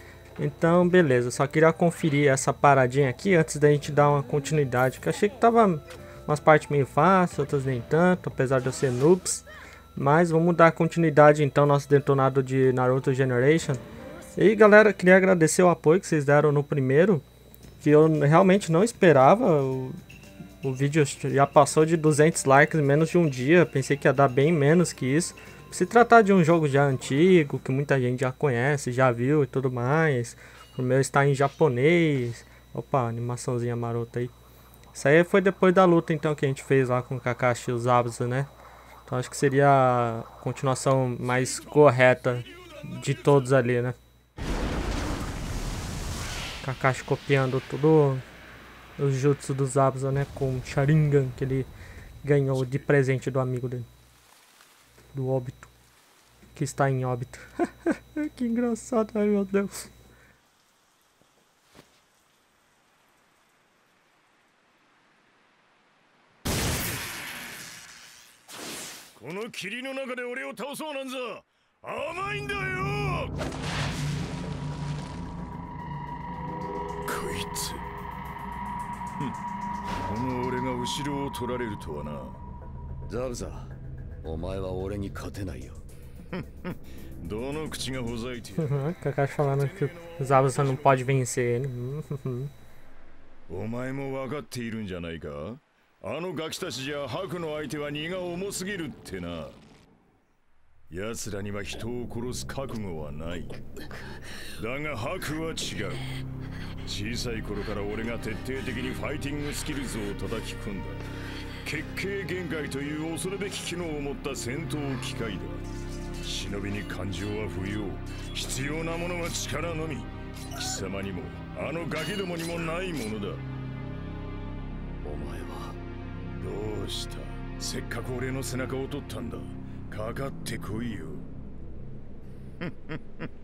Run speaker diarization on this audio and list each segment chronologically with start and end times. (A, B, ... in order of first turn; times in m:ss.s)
0:00.4-0:09.4 A
0:10.0-0:13.8 A
0:14.4-0:17.2 A
0:17.8-0:20.0 A
0:20.6-0:34.3 A
0:34.9-0:38.5 A
0:39.1-0:44.0 A
0:46.6-0:48.2 A
0:49.0-0:51.7 A
0:52.2-0:53.9 A
0:55.1-0:55.7 A
0:56.6-0:59.9 A
1:09.2-1:13.4 B
1:17.1-1:17.9 B
1:19.9-1:22.4 B
1:23.1-1:25.8 C
1:26.3-1:28.8 B
1:28.6-1:32.5 A
1:29.5-1:31.1 B
1:33.5-1:39.6 B
1:40.9-1:43.6 B
1:44.4-1:46.1 B
1:46.8-1:51.0 B
1:51.6-1:55.6 B
1:56.2-2:03.4 B
2:05.0-2:05.8 C
2:06.4-2:11.3 B
2:12.6-2:13.3 B